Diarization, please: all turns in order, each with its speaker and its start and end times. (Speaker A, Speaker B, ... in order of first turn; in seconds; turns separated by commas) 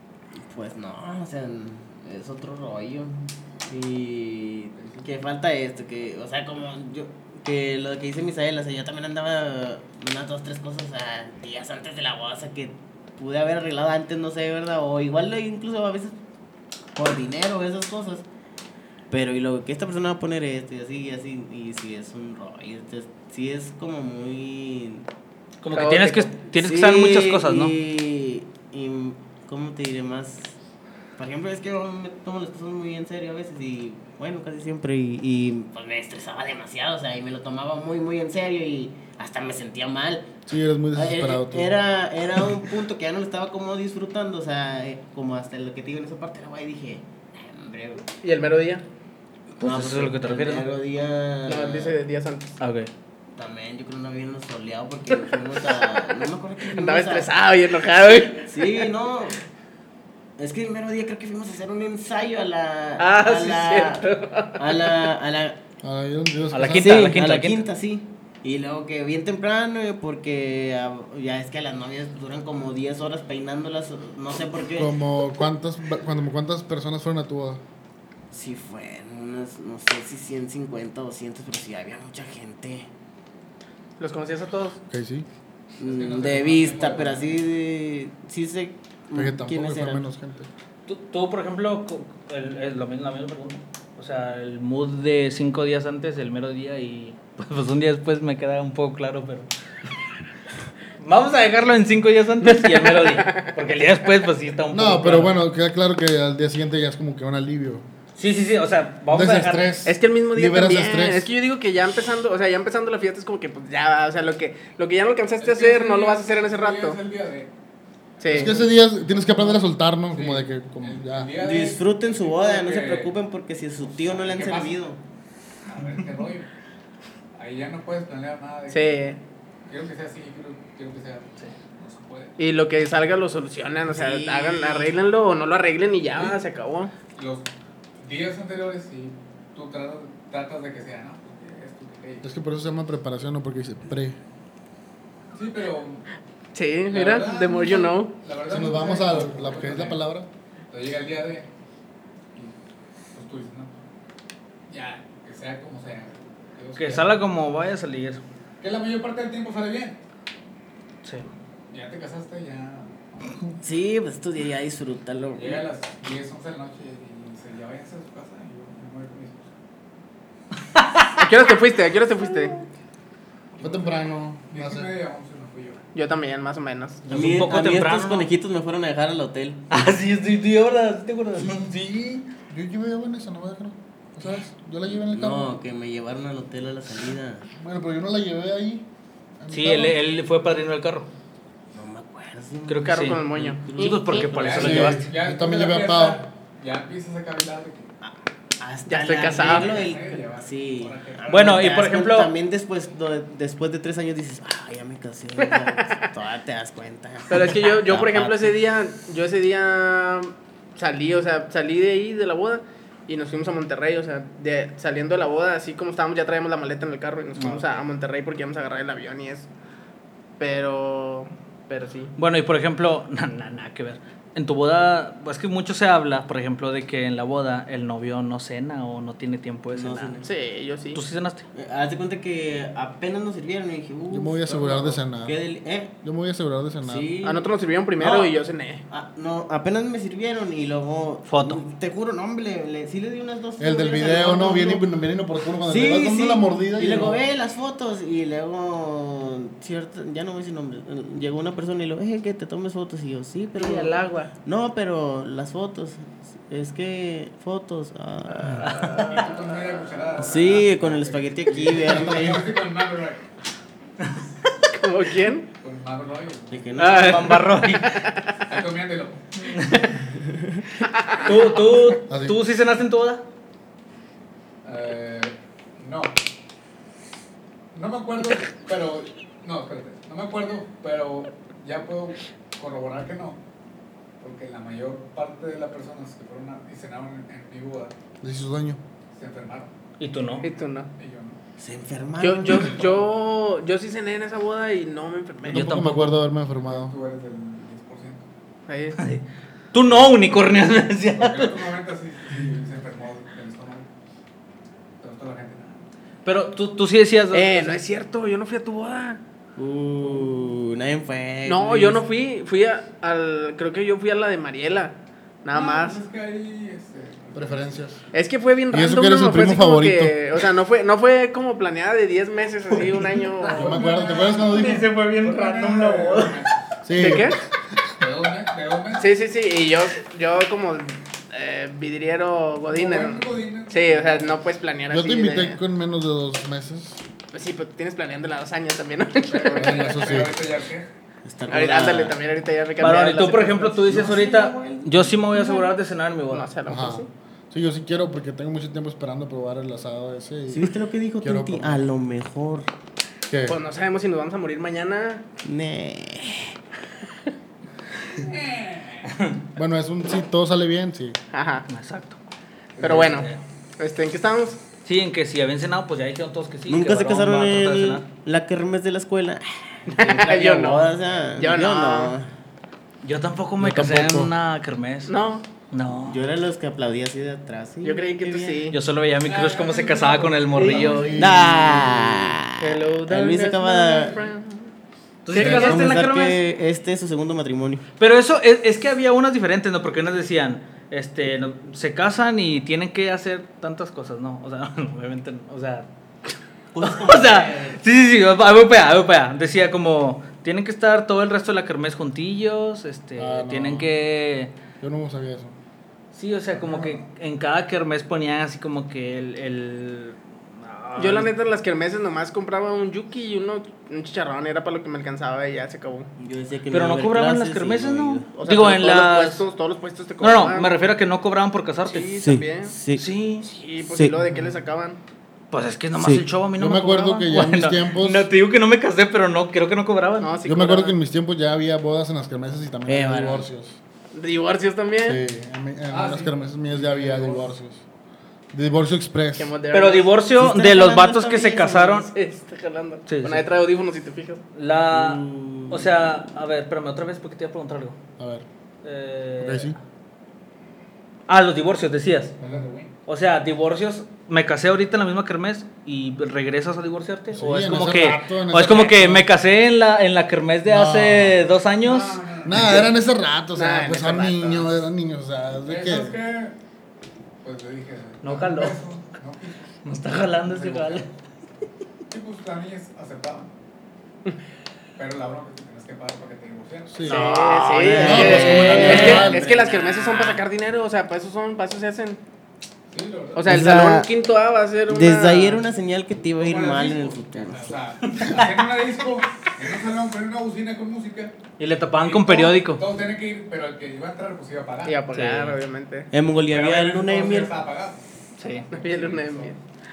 Speaker A: 0.4-16.1, Speaker A: 16.9-18.2, Speaker A: 19.1-25.1, Speaker B: 25.6-27.7, Speaker C: 25.7-26.3, Speaker A: 26.6-30.6, Speaker A: 31.2-40.3, Speaker D: 40.5-41.8, Speaker A: 40.9-48.0, Speaker C: 48.2-48.8, Speaker B: 49.6-50.7, Speaker A: 49.6-51.9, Speaker C: 51.5-52.6, Speaker B: 52.6-52.9, Speaker A: 53.4-57.3, Speaker C: 55.1-56.0, Speaker C: 56.6-58.9, Speaker A: 58.5-59.4, Speaker A: 60.4-65.6, Speaker C: 63.0-65.1, Speaker D: 65.8-67.2, Speaker B: 66.5-67.6, Speaker A: 66.6-74.9, Speaker D: 74.8-77.6, Speaker A: 78.3-82.9, Speaker C: 84.0-84.8, Speaker D: 84.9-85.3, Speaker A: 85.8-90.0, Speaker E: 85.8-87.4, Speaker D: 89.2-90.5, Speaker B: 90.9-99.5, Speaker B: 101.0-105.3, Speaker C: 102.4-103.5, Speaker D: 104.7-107.9, Speaker B: 108.2-109.7, Speaker D: 109.1-111.3, Speaker C: 109.9-117.0, Speaker E: 115.4-117.5, Speaker C: 118.2-118.5, Speaker E: 118.3-123.1, Speaker D: 118.3-121.3, Speaker A: 121.4-125.0, Speaker E: 123.8-124.8, Speaker E: 125.6-126.5, Speaker E: 127.3-128.9, Speaker C: 128.7-129.2, Speaker E: 129.7-132.3, Speaker C: 132.4-136.9, Speaker A: 133.9-134.9, Speaker E: 136.1-136.4, Speaker E: 137.2-137.5, Speaker E: 138.0-142.3, Speaker D: 142.2-144.2, Speaker E: 145.3-146.1, Speaker C: 146.5-148.1, Speaker E: 146.9-150.0, Speaker D: 148.5-150.3, Speaker E: 150.7-151.5, Speaker E: 153.1-153.7, Speaker E: 154.7-157.2, Speaker B: 156.8-158.2, Speaker E: 158.6-160.0, Speaker E: 161.7-163.5, Speaker A: 163.6-165.7, Speaker E: 165.3-169.5, Speaker B: 170.7-171.2, Speaker C: 171.2-172.6, Speaker E: 173.6-174.0, Speaker D: 173.6-174.9, Speaker E: 174.5-175.8, Speaker C: 175.9-177.0, Speaker B: 177.1-178.3, Speaker A: 177.1-179.7, Speaker B: 179.7-182.2, Speaker D: 181.4-181.7, Speaker D: 182.3-185.6, Speaker A: 184.9-187.4, Speaker D: 187.6-188.9, Speaker D: 189.4-190.0, Speaker B: 189.5-191.1, Speaker A: 191.7-194.9, Speaker B: 192.7-195.1, Speaker C: 192.8-194.3, Speaker E: 194.3-197.9, Speaker D: 194.6-196.2, Speaker A: 198.0-208.5, Speaker C: 198.9-199.7, Speaker E: 199.3-201.5, Speaker B: 201.3-202.3, Speaker C: 205.4-206.0, Speaker C: 207.3-219.5, Speaker B: 217.4-217.7, Speaker C: 220.4-222.1, Speaker B: 222.2-230.2, Speaker A: 229.7-230.3, Speaker C: 230.2-231.0, Speaker B: 230.9-231.5, Speaker A: 231.5-235.9, Speaker D: 234.1-235.4, Speaker D: 236.0-237.1, Speaker A: 236.8-237.5, Speaker C: 237.2-238.8, Speaker A: 238.0-238.3, Speaker A: 238.9-244.9, Speaker B: 241.3-241.6, Speaker D: 243.6-247.2, Speaker A: 245.6-259.0, Speaker C: 253.6-254.3, Speaker C: 258.4-259.4, Speaker E: 258.7-263.2, Speaker A: 260.2-262.5, Speaker C: 264.7-265.5, Speaker E: 265.6-266.7, Speaker A: 266.5-267.4, Speaker C: 266.8-268.4, Speaker B: 266.8-268.1, Speaker E: 268.5-269.4, Speaker B: 269.4-270.0, Speaker A: 270.2-270.6, Speaker C: 270.9-271.3, Speaker B: 271.2-273.2, Speaker D: 272.1-272.4, Speaker E: 274.6-276.2, Speaker E: 277.7-283.4, Speaker E: 284.2-287.9, Speaker D: 288.2-288.8, Speaker E: 289.1-289.7, Speaker B: 290.0-290.5, Speaker E: 290.2-291.4, Speaker C: 290.4-290.9, Speaker A: 291.6-292.8, Speaker C: 292.2-295.7, Speaker E: 292.7-293.1, Speaker D: 295.5-296.9, Speaker B: 295.5-296.2, Speaker E: 296.7-298.2, Speaker C: 298.7-299.0, Speaker B: 299.0-301.6, Speaker E: 301.1-303.9, Speaker E: 305.0-305.9, Speaker B: 306.2-307.8, Speaker C: 307.3-309.2, Speaker A: 309.6-312.0, Speaker C: 311.4-316.0, Speaker E: 315.5-317.8, Speaker D: 317.4-318.0, Speaker C: 318.1-323.8, Speaker D: 318.7-320.2, Speaker B: 322.8-326.4, Speaker E: 323.5-326.6, Speaker D: 323.5-324.9, Speaker D: 326.8-327.8, Speaker C: 327.0-327.4, Speaker E: 328.0-329.1, Speaker C: 329.0-335.6, Speaker E: 332.7-334.4, Speaker D: 334.9-337.0, Speaker C: 337.3-340.1, Speaker E: 339.3-340.9, Speaker D: 339.6-340.4, Speaker A: 341.2-342.2, Speaker C: 341.5-343.8, Speaker B: 342.8-346.5, Speaker A: 343.6-345.2, Speaker C: 345.4-345.6, Speaker C: 346.3-347.1, Speaker D: 346.7-351.9, Speaker A: 350.5-352.7, Speaker D: 353.3-353.6, Speaker C: 353.5-355.2, Speaker A: 355.4-356.6, Speaker E: 358.2-359.1, Speaker B: 359.1-359.4, Speaker D: 359.6-361.2, Speaker C: 361.3-361.7, Speaker B: 361.7-362.2, Speaker C: 362.8-364.6, Speaker B: 362.8-363.4, Speaker B: 364.9-368.1, Speaker A: 366.7-372.3, Speaker C: 369.9-372.1, Speaker B: 373.0-375.1, Speaker D: 373.6-374.3, Speaker C: 375.1-375.5, Speaker B: 375.7-376.2, Speaker A: 376.1-378.6, Speaker C: 377.8-378.8, Speaker B: 378.7-381.1, Speaker E: 379.3-381.2, Speaker C: 380.6-381.2, Speaker D: 380.6-382.4, Speaker A: 381.2-384.1, Speaker C: 382.6-384.7, Speaker B: 385.2-386.4, Speaker C: 385.3-386.3, Speaker A: 385.4-387.9, Speaker B: 388.0-404.5, Speaker A: 396.7-397.8, Speaker D: 403.2-403.9, Speaker D: 404.8-405.6, Speaker B: 406.1-411.3, Speaker C: 411.0-416.1, Speaker A: 416.2-418.7, Speaker B: 416.7-419.4, Speaker C: 418.4-420.7, Speaker B: 420.2-422.1, Speaker C: 421.9-422.8, Speaker A: 422.2-423.1, Speaker B: 423.0-423.5, Speaker C: 423.4-425.0, Speaker A: 423.9-424.2, Speaker B: 425.5-430.3, Speaker A: 426.0-426.2, Speaker D: 426.6-428.3, Speaker C: 430.2-431.0, Speaker D: 430.4-433.8, Speaker A: 432.9-433.5, Speaker C: 434.1-435.2, Speaker D: 435.1-437.8, Speaker E: 435.9-437.5, Speaker D: 438.5-439.5, Speaker C: 439.4-440.1, Speaker B: 439.7-442.1, Speaker A: 440.4-442.1, Speaker C: 442.1-444.4, Speaker B: 443.1-443.4, Speaker B: 444.6-448.0, Speaker A: 444.9-445.9, Speaker D: 448.2-448.4, Speaker B: 448.8-449.8, Speaker D: 449.4-449.8, Speaker B: 451.3-452.4, Speaker E: 452.4-452.9, Speaker B: 453.1-462.2, Speaker D: 457.3-459.3, Speaker D: 460.7-461.4, Speaker E: 461.8-462.8, Speaker D: 462.4-466.2, Speaker C: 463.5-464.8, Speaker E: 465.7-466.6, Speaker E: 467.4-471.1, Speaker B: 468.2-468.8, Speaker B: 469.9-471.1, Speaker E: 472.1-473.5, Speaker E: 475.0-477.1, Speaker D: 476.9-477.4, Speaker C: 477.1-482.2, Speaker A: 477.1-480.4, Speaker B: 477.7-479.3, Speaker D: 478.0-479.4, Speaker E: 482.9-483.5, Speaker C: 483.4-485.6, Speaker A: 483.5-484.1, Speaker A: 484.9-487.7, Speaker E: 486.4-491.4, Speaker B: 488.1-488.5, Speaker B: 491.6-492.8, Speaker E: 492.0-495.0, Speaker C: 494.9-496.1, Speaker B: 495.1-495.6, Speaker A: 496.1-497.6, Speaker E: 496.5-499.6, Speaker B: 498.4-498.6, Speaker C: 498.7-499.6